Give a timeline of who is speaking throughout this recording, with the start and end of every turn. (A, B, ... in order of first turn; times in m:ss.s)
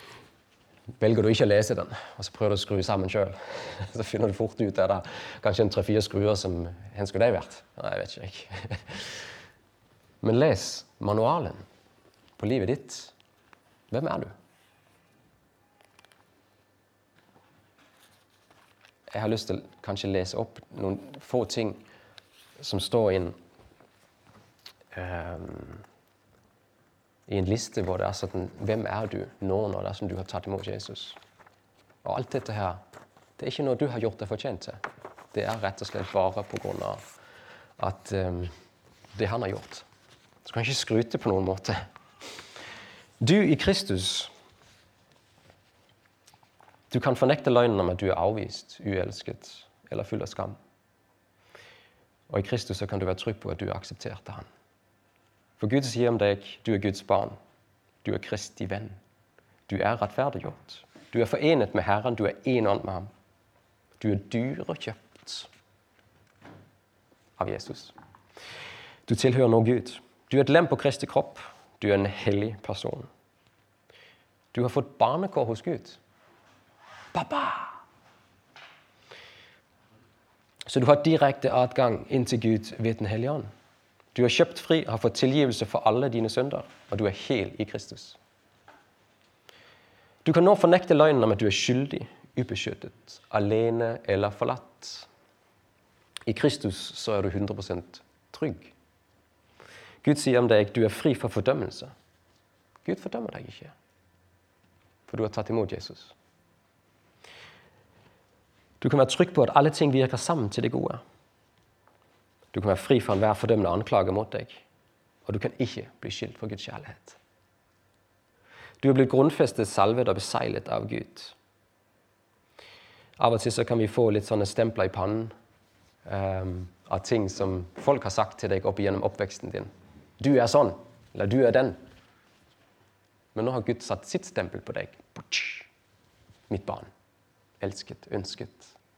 0:01.0-0:09.3 A
0:10.2-0:11.6 A
0:12.4-0:13.1 A
0:13.9-0:14.3 A
0:19.1-0:21.8 A
0:22.6-0:23.4 A
0:24.9-0:25.8 A
0:27.3-0:31.2 A
0:32.0-0:32.8 A
0:33.4-0:34.8 A
0:35.3-0:37.0 A
0:37.8-0:38.5 A
0:39.1-0:39.8 A
0:40.4-0:41.8 A
0:43.2-0:44.3 A
0:46.9-0:50.6 A
0:52.3-0:54.4 A
0:55.6-0:57.4 A
0:58.0-0:59.0 A
0:59.7-1:03.1 A
1:04.0-1:05.5 A
1:07.4-1:07.9 A
1:09.0-1:13.1 A
1:14.5-1:16.0 A
1:17.1-1:17.8 A
1:20.6-1:23.5 A
1:24.1-1:28.2 A
1:30.2-1:35.1 A
1:36.2-1:38.7 A
1:40.0-1:41.9 A
1:42.8-1:43.7 A
1:45.1-1:46.1 A
1:48.8-1:51.0 A
1:52.5-1:54.6 A
1:55.2-1:57.2 A
1:58.8-2:01.3 A
2:03.2-2:05.3 A
2:06.0-2:11.8 A
2:13.3-2:15.7 A
2:16.5-2:16.9 A
2:17.6-2:18.8 A